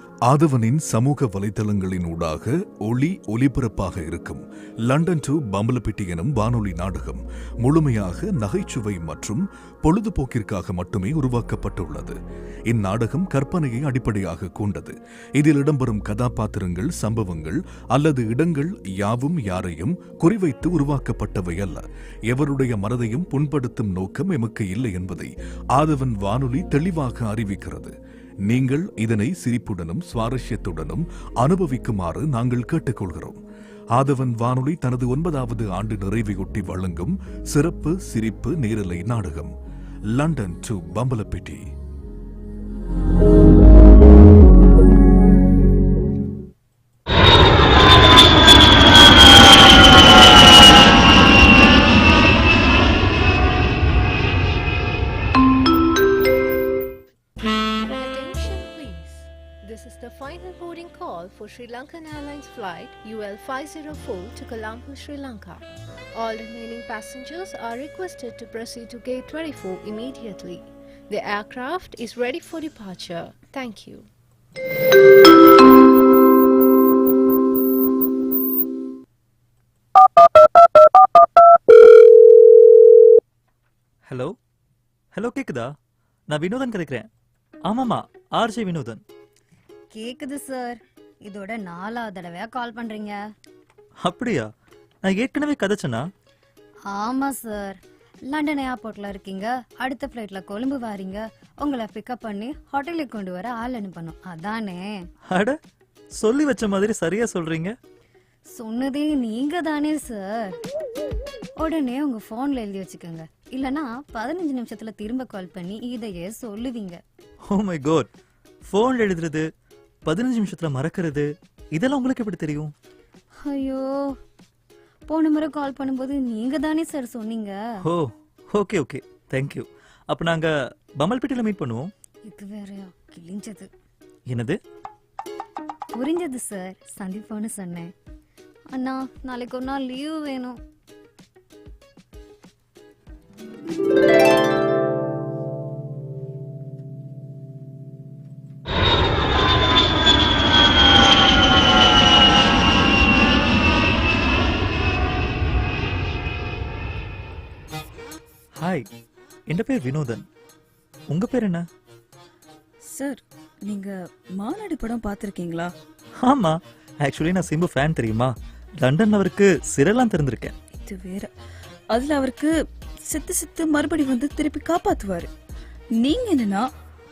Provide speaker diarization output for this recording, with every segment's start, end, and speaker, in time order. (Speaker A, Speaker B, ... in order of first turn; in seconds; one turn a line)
Speaker A: 0.3-12.2
Speaker A: 12.7-27.9
Speaker A: 28.5-33.4
Speaker A: 34.0-39.5
Speaker A: 40.1-41.6
Speaker B: 57.8-65.6
Speaker B: 66.2-74.1
Speaker C: 84.1-84.4
Speaker C: 85.1-85.7
Speaker C: 86.3-87.1
Speaker C: 87.7-89.0
Speaker D: 89.9-93.2
Speaker C: 94.0-94.5
Speaker C: 95.0-96.0
Speaker D: 96.9-105.1
Speaker C: 105.3-105.6
Speaker C: 106.2-107.8
Speaker D: 108.5-110.6
Speaker D: 111.6-117.0
Speaker C: 117.5-118.1
Speaker C: 118.7-119.5
Speaker C: 120.1-122.7
Speaker D: 123.4-124.2
Speaker D: 125.1-127.7
Speaker C: 127.8-131.9
Speaker D: 132.2-133.7
Speaker C: 134.3-134.6
Speaker D: 135.9-137.9
Speaker D: 138.7-140.6
Speaker C: 158.6-158.9
Speaker C: 159.5-160.2
Speaker C: 161.1-161.7
Speaker E: 162.9-165.7
Speaker C: 166.2-170.6
Speaker E: 170.7-171.3
Speaker E: 171.9-172.5
Speaker E: 173.1-175.3
Speaker E: 176.0-176.7